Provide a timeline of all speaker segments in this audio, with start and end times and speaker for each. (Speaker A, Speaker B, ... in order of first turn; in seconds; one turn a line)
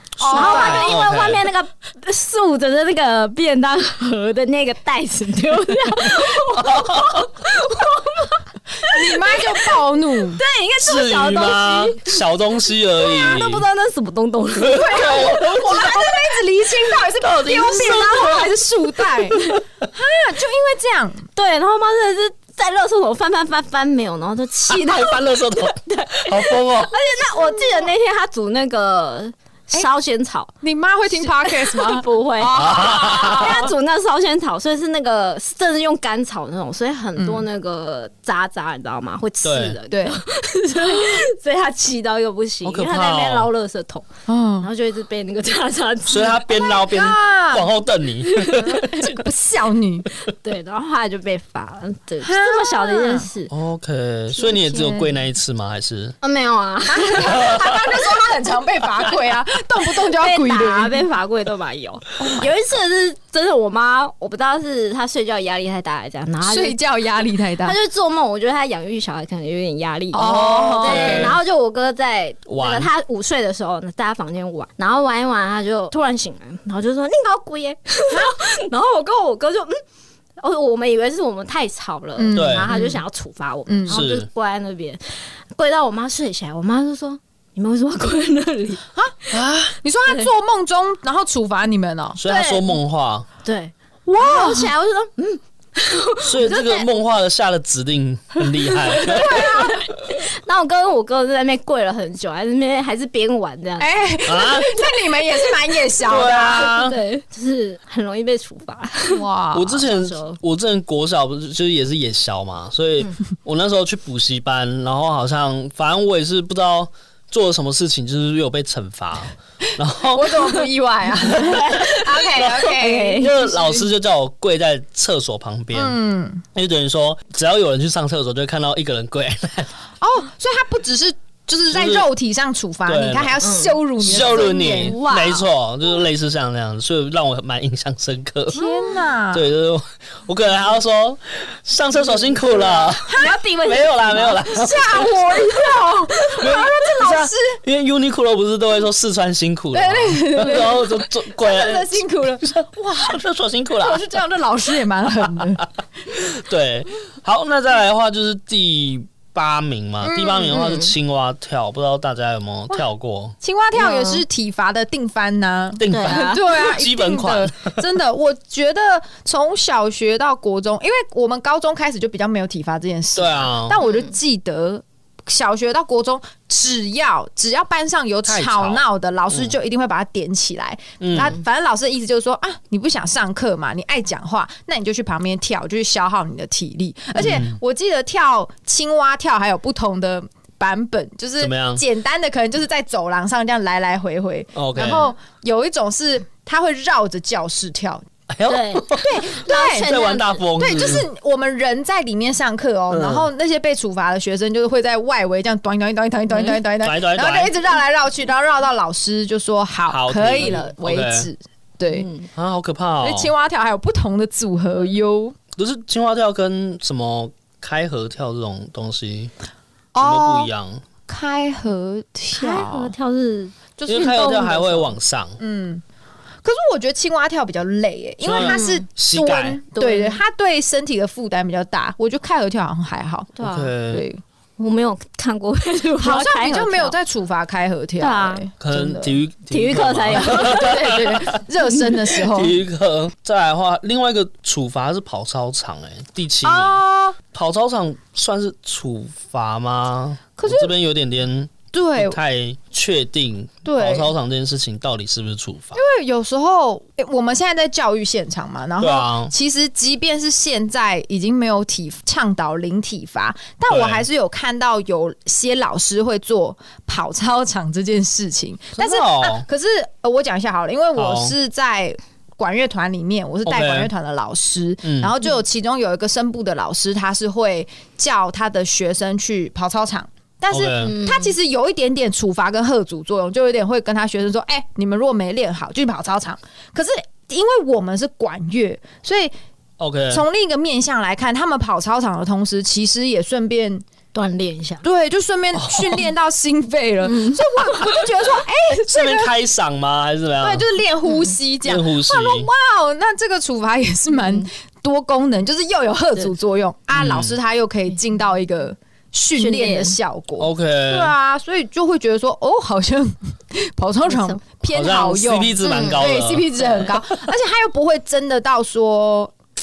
Speaker A: 0.2-1.0
Speaker B: 0.2-1.5
Speaker C: 0.3-12.2
Speaker B: 6.5-7.2
Speaker A: 8.8-10.4
Speaker B: 10.8-13.7
Speaker C: 13.0-16.0
Speaker B: 14.6-16.1
Speaker A: 14.6-21.3
Speaker B: 17.2-19.6
Speaker C: 21.4-30.5
Speaker B: 24.7-26.9
Speaker A: 27.2-27.9
Speaker A: 30.6-33.7
Speaker C: 31.1-44.1
Speaker B: 32.5-33.6
Speaker A: 37.2-37.4
Speaker B: 39.4-39.8
Speaker A: 39.9-40.2
Speaker B: 42.6-43.5
Speaker A: 44.3-44.7
Speaker C: 44.6-46.4
Speaker B: 46.1-49.1
Speaker A: 46.5-47.7
Speaker C: 48.2-48.7
Speaker A: 48.6-50.1
Speaker C: 50.3-53.5
Speaker A: 52.2-53.3
Speaker B: 53.5-56.2
Speaker A: 54.4-55.1
Speaker C: 56.2-57.5
Speaker A: 56.9-61.0
Speaker B: 57.5-57.8
Speaker C: 59.9-66.8
Speaker A: 62.2-62.5
Speaker A: 66.4-67.8
Speaker C: 67.6-79.8
Speaker A: 70.1-71.4
Speaker B: 70.1-71.4
Speaker B: 72.5-72.9
Speaker A: 78.1-78.4
Speaker C: 80.4-89.4
Speaker A: 82.2-83.0
Speaker B: 82.3-82.7
Speaker A: 83.7-84.0
Speaker B: 83.9-84.3
Speaker B: 89.3-89.8
Speaker A: 89.8-92.2
Speaker B: 92.2-93.3
Speaker C: 92.2-92.8
Speaker C: 93.4-96.9
Speaker A: 94.1-94.7
Speaker B: 96.2-99.8
Speaker C: 98.6-103.9
Speaker A: 99.1-99.7
Speaker A: 103.8-106.8
Speaker B: 104.3-104.9
Speaker B: 106.0-107.0
Speaker C: 106.2-109.3
Speaker A: 109.1-109.8
Speaker B: 109.5-120.7
Speaker C: 109.8-110.4
Speaker A: 120.1-123.8
Speaker B: 121.3-126.0
Speaker C: 121.4-123.3
Speaker A: 125.7-126.5
Speaker B: 126.5-129.7
Speaker A: 130.0-135.4
Speaker B: 131.7-132.1
Speaker B: 132.9-133.4
Speaker C: 133.4-135.4
Speaker B: 134.0-138.7
Speaker A: 138.5-139.5
Speaker B: 139.3-145.6
Speaker A: 143.0-147.6
Speaker B: 146.3-154.1
Speaker A: 149.7-153.2
Speaker A: 153.8-155.7
Speaker B: 156.1-163.4
Speaker A: 160.0-160.6
Speaker C: 160.5-160.9
Speaker A: 163.4-198.1
Speaker C: 163.8-164.2
Speaker B: 165.8-167.8
Speaker C: 165.9-166.4
Speaker B: 173.2-173.8
Speaker C: 173.8-174.1
Speaker B: 178.3-179.5
Speaker B: 181.0-181.3
Speaker B: 187.2-187.6
Speaker B: 191.4-191.8
Speaker B: 194.6-195.1
Speaker B: 198.3-201.1
Speaker C: 198.5-200.4
Speaker A: 199.0-199.9
Speaker A: 200.6-212.1
Speaker B: 202.9-203.3
Speaker C: 206.3-206.6
Speaker B: 206.8-207.5
Speaker B: 209.9-211.3
Speaker C: 211.9-212.3
Speaker B: 212.3-213.3
Speaker A: 213.0-215.4
Speaker B: 215.6-219.3
Speaker A: 219.9-220.5
Speaker B: 220.0-220.8
Speaker A: 221.1-222.9
Speaker C: 222.3-224.9
Speaker A: 223.8-224.4
Speaker B: 223.9-225.4
Speaker A: 225.4-225.8
Speaker A: 226.4-234.2
Speaker B: 228.2-229.6
Speaker C: 228.3-228.9
Speaker C: 229.7-230.2
Speaker C: 233.4-233.8
Speaker B: 233.4-234.1
Speaker C: 234.6-236.9
Speaker A: 236.0-239.2
Speaker C: 238.0-238.4
Speaker B: 238.6-241.4
Speaker C: 239.5-240.9
Speaker A: 240.1-242.6
Speaker B: 242.1-255.8
Speaker A: 246.4-247.2
Speaker A: 250.4-250.7
Speaker A: 251.7-252.2
Speaker A: 253.7-254.1
Speaker A: 255.7-289.3
Speaker B: 258.8-259.3
Speaker B: 263.7-264.1
Speaker B: 268.8-269.5
Speaker B: 271.0-271.4
Speaker B: 273.4-273.9
Speaker B: 274.8-275.1
Speaker B: 280.5-280.9
Speaker C: 280.8-281.3
Speaker B: 289.8-290.2
Speaker A: 290.1-293.9
Speaker C: 294.1-294.8
Speaker A: 294.8-299.3
Speaker B: 295.6-296.0
Speaker C: 297.0-297.8
Speaker B: 298.9-300.7
Speaker A: 300.4-319.4
Speaker B: 301.6-302.5
Speaker B: 306.9-307.4
Speaker C: 309.4-310.0
Speaker B: 310.4-311.1
Speaker C: 314.1-314.4
Speaker B: 314.7-317.0
Speaker C: 315.6-316.1